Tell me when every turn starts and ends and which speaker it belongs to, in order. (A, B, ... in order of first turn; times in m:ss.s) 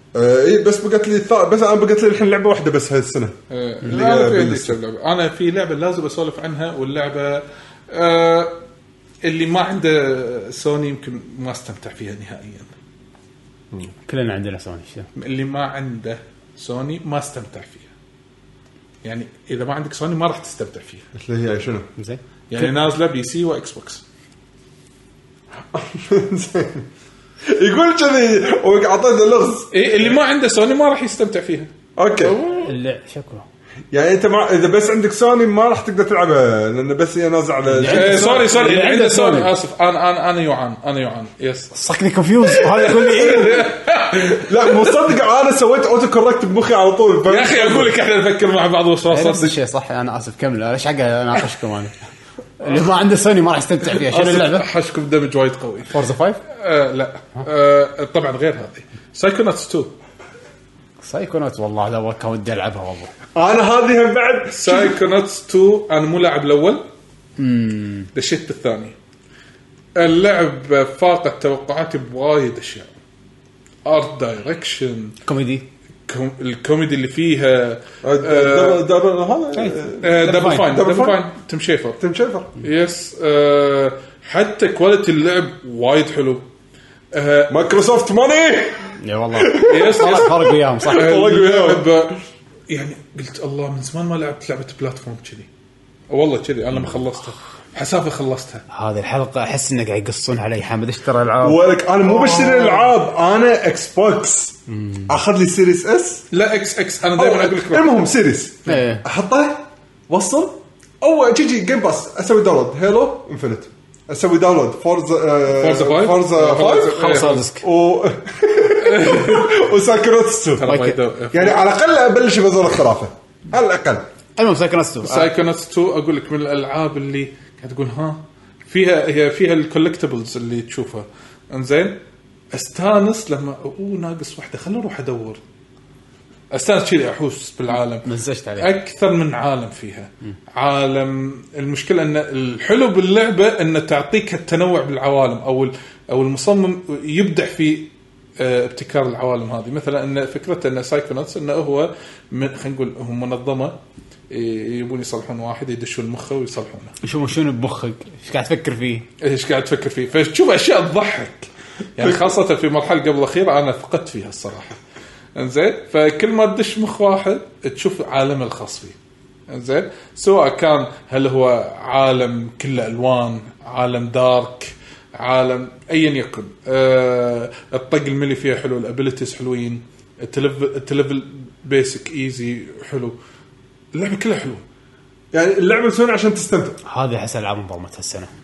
0:00.1-0:04.8 A
0:03.5-0:08.6 B
0:09.2-0:12.7 B
0:14.0-0:15.1 C
0:15.2-0:17.9 B
0:19.0-0:21.0 B
0:21.2-0:21.9 A
0:22.0-0:22.7 C
0:22.5-0:24.0 B
0:25.7-0:26.9 A
0:27.4-0:30.1 A
0:29.7-0:32.7 B
0:32.0-0:32.4 A
0:32.5-0:33.4 C
0:33.9-0:38.4 A
0:37.7-0:39.5 C
0:37.8-0:41.7 B
0:41.7-0:43.7 C
0:42.5-0:44.9 B
0:43.2-0:48.0 A
0:47.2-0:49.5 B
0:49.1-0:51.9 C
0:52.6-0:54.7 C
0:53.9-0:55.9 B
0:55.9-0:56.4 C
0:56.5-0:59.9 B
1:01.0-1:03.1 C
1:03.3-1:05.0 A
1:04.5-1:06.8 B
1:07.4-1:08.1 C
1:08.1-1:08.9 B
1:09.9-1:12.9 B
1:13.8-1:15.1 B
1:15.2-1:15.6 C
1:16.1-1:18.8 B
1:18.0-1:21.2 A
1:19.5-1:20.6 C
1:20.0-1:22.0 B
1:22.0-1:22.5 A
1:22.6-1:26.4 B
1:27.1-1:27.6 B
1:27.5-1:31.9 A
1:29.0-1:31.2 C
1:29.6-1:30.3 B
1:30.9-1:35.5 B
1:36.1-1:38.6 B
1:38.7-1:42.8 C
1:41.4-1:46.2 A
1:44.7-1:45.1 C
1:46.3-1:47.9 B
1:47.2-2:00.6 A
1:48.6-1:49.0 C
1:55.5-1:57.4 B
1:56.9-1:57.6 C
1:58.8-1:59.6 B
2:00.6-2:01.6 B
2:00.6-2:01.0 C
2:01.3-2:04.0 A
2:04.4-2:05.3 C
2:05.0-2:12.0 B
2:12.5-2:15.4 B
2:16.5-2:33.8 B
2:18.0-2:18.7 C
2:34.3-2:36.9 B
2:37.0-2:39.0 C
2:39.2-2:44.7 B
2:45.4-2:48.9 B
2:49.5-3:03.2 B
3:03.9-3:04.6 B
3:05.3-3:06.8 A
3:06.8-3:08.3 C